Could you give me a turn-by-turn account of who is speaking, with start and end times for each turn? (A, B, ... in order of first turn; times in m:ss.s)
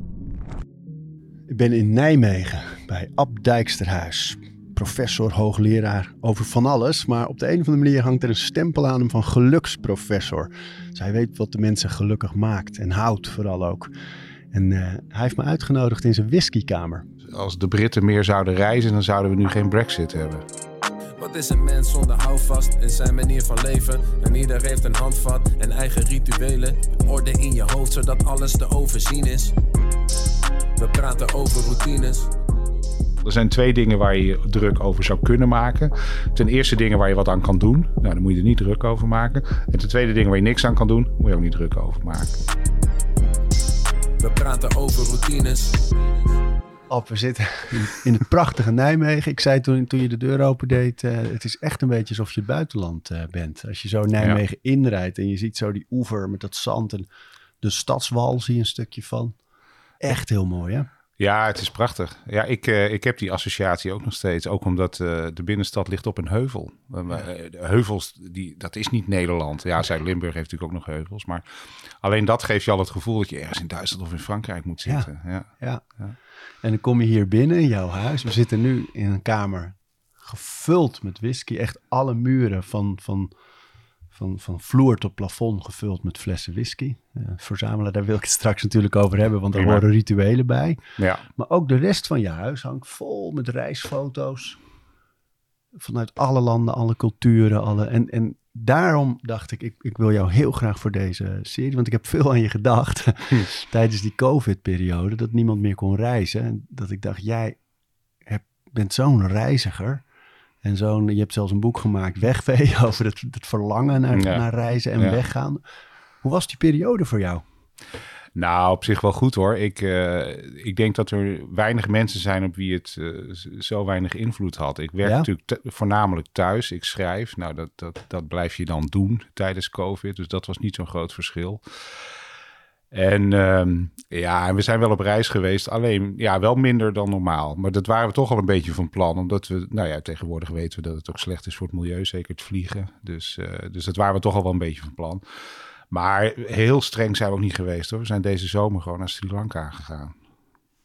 0:01.5-0:13.9 A
0:14.5-0:17.0 A
0:17.3-0:20.4 B
0:21.2-0:29.5 C
0:30.8-0:32.3 C
0:33.2-0:42.4 B
0:44.2-0:45.9 C
0:46.9-0:57.1 A
0:57.6-0:59.4 A
1:00.0-1:00.9 A
1:01.2-1:11.4 B
1:12.0-1:16.1 B
1:16.6-1:23.3 A
1:24.1-1:30.8 A
1:29.5-1:29.8 B
1:31.0-1:31.2 B
1:31.4-1:34.6 A
1:35.8-1:47.6 A
1:48.2-1:50.0 A
1:50.6-1:55.6 A
1:54.1-1:54.4 B
1:56.2-1:57.4 A
1:58.4-2:11.6 B
2:12.9-2:25.2 B
2:25.9-2:30.1 B